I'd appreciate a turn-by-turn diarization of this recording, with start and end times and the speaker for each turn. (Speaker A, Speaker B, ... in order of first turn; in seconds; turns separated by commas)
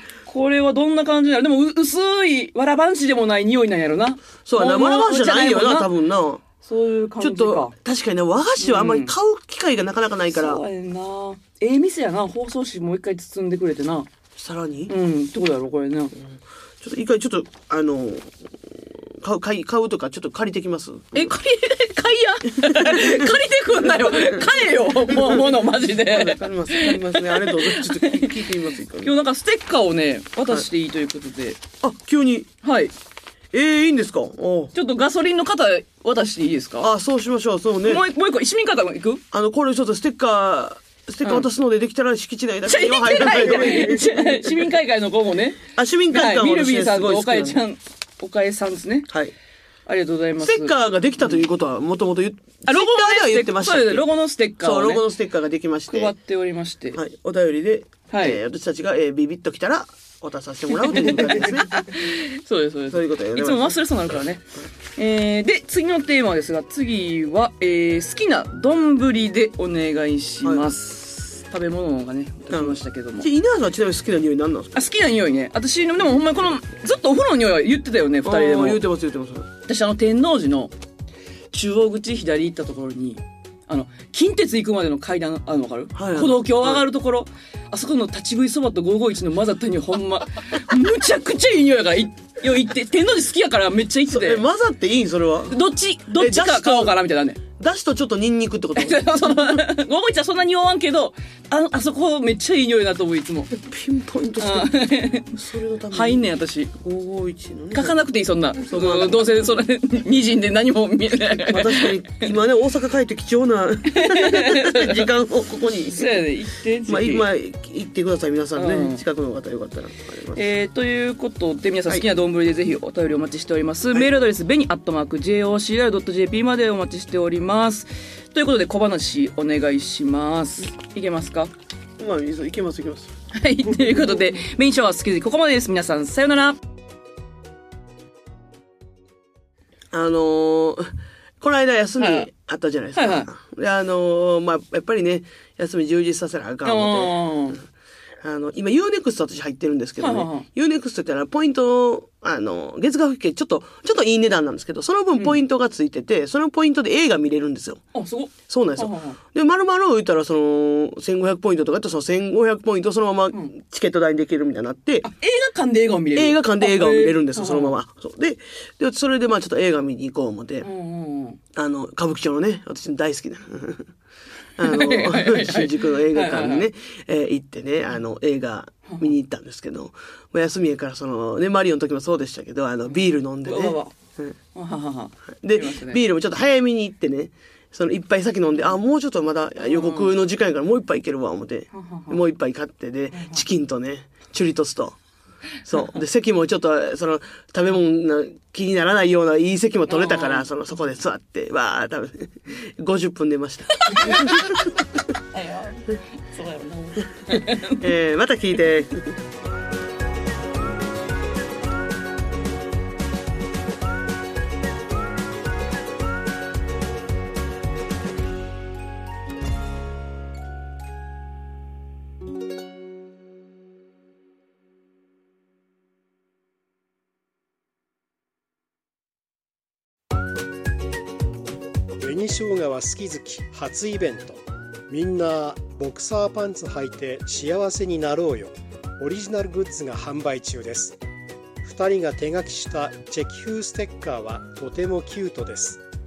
Speaker A: 0.2-5.9, Speaker B: 4.5-6.4, Speaker A: 6.6-7.7, Speaker B: 7.2-10.6, Speaker A: 8.6-9.1, Speaker A: 10.3-14.1, Speaker B: 14.3-14.9, Speaker A: 14.9-16.1, Speaker B: 16.2-21.3, Speaker A: 21.1-28.4, Speaker B: 22.6-23.3, Speaker B: 24.0-24.4, Speaker B: 25.1-25.4, Speaker B: 26.0-29.1, Speaker A: 29.0-31.6, Speaker B: 31.8-32.5, Speaker A: 32.6-32.9, Speaker B: 33.5-34.7, Speaker A: 34.7-36.9, Speaker B: 36.8-38.0, Speaker A: 37.8-39.2, Speaker B: 39.3-44.2, Speaker A: 42.6-49.1, Speaker B: 45.7-47.6, Speaker A: 49.9-50.7, Speaker B: 50.4-54.1, Speaker A: 52.6-55.0, Speaker B: 54.6-56.1, Speaker A: 55.9-57.0, Speaker B: 56.9-61.7, Speaker A: 58.1-58.4, Speaker A: 60.8-73.3, Speaker B: 62.9-63.8, Speaker B: 70.4-70.7, Speaker B: 72.5-74.7, Speaker A: 74.7-78.8, Speaker B: 78.2-79.5, Speaker A: 79.7-80.7, Speaker A: 81.5-94.4, Speaker B: 85.9-86.8, Speaker B: 94.1-95.5, Speaker A: 95.5-97.4, Speaker B: 96.1-96.9, Speaker B: 97.5-99.6, Speaker A: 98.8-103.5, Speaker B: 103.7-104.7, Speaker A: 104.4-105.3, Speaker B: 105.3-106.2, Speaker A: 105.9-106.7, Speaker B: 106.8-108.0, Speaker A: 107.7-112.3, Speaker B: 108.7-109.2, Speaker B: 111.4-116.2, Speaker A: 113.9-115.1, Speaker A: 115.9-117.2, Speaker B: 116.8-120.4, Speaker A: 118.5-119.0, Speaker A: 120.3-131.5, Speaker B: 132.0-133.1, Speaker A: 133.3-136.6, Speaker B: 139.9-140.9, Speaker B: 141.4-147.2, Speaker A: 142.0-142.3, Speaker A: 142.9-143.3, Speaker A: 146.6-147.6, Speaker B: 148.2-157.8, Speaker A: 150.0-150.4, Speaker A: 157.9-159.2, Speaker B: 158.5-165.0, Speaker A: 165.0-167.7, Speaker B: 166.1-170.7, Speaker A: 170.6-171.4, Speaker B: 171.5-173.9, Speaker B: 174.6-184.3, Speaker A: 174.6-176.7, Speaker A: 183.4-183.9, Speaker A: 184.5-186.0, Speaker B: 185.4-195.0, Speaker A: 189.6-190.1, Speaker A: 191.7-192.2, Speaker A: 193.1-193.4, Speaker B: 195.6-204.8, Speaker A: 199.9-200.4, Speaker A: 203.8-204.5, Speaker A: 205.3-207.8, Speaker B: 207.5-209.1, Speaker C: 232.0-241.0, Speaker C: 241.6-245.8